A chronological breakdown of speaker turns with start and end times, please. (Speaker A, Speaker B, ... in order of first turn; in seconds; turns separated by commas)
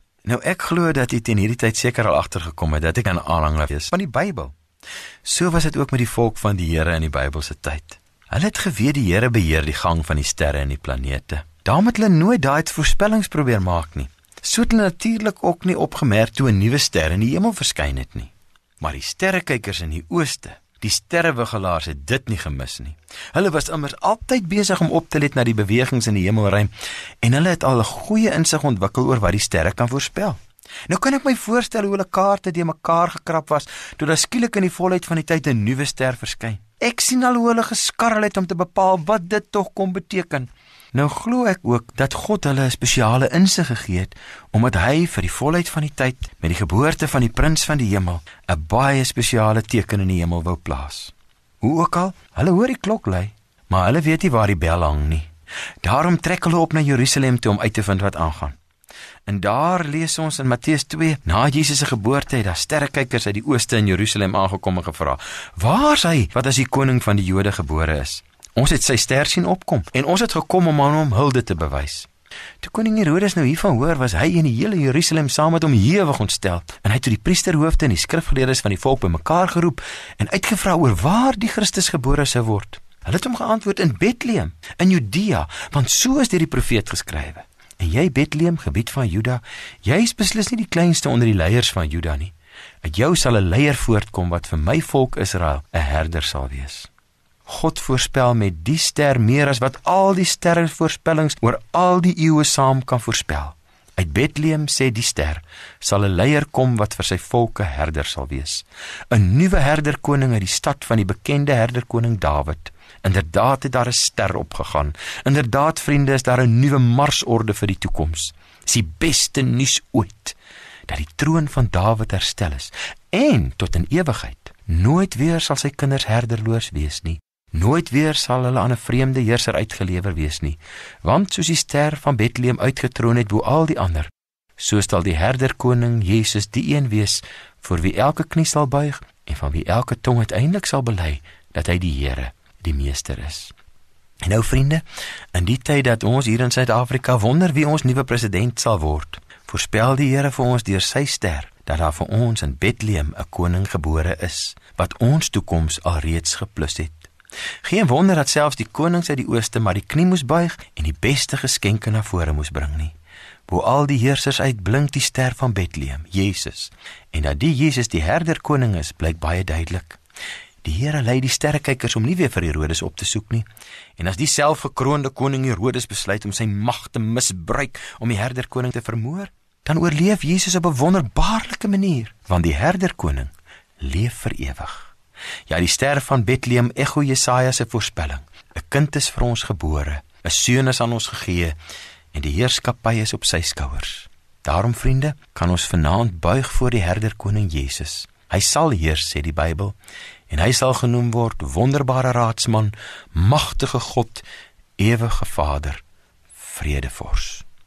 Speaker A: 0.2-4.5, Speaker A: 5.2-26.7, Speaker A: 27.2-55.3, Speaker A: 55.8-58.6, Speaker A: 59.2-72.1, Speaker A: 72.6-96.9, Speaker A: 97.5-120.3, Speaker A: 120.9-143.5, Speaker A: 144.2-157.1, Speaker A: 157.6-162.9, Speaker A: 163.5-170.0, Speaker A: 170.6-184.9, Speaker A: 185.5-191.6, Speaker A: 192.1-199.8, Speaker A: 200.3-204.2, Speaker A: 204.8-205.8, Speaker A: 206.4-207.4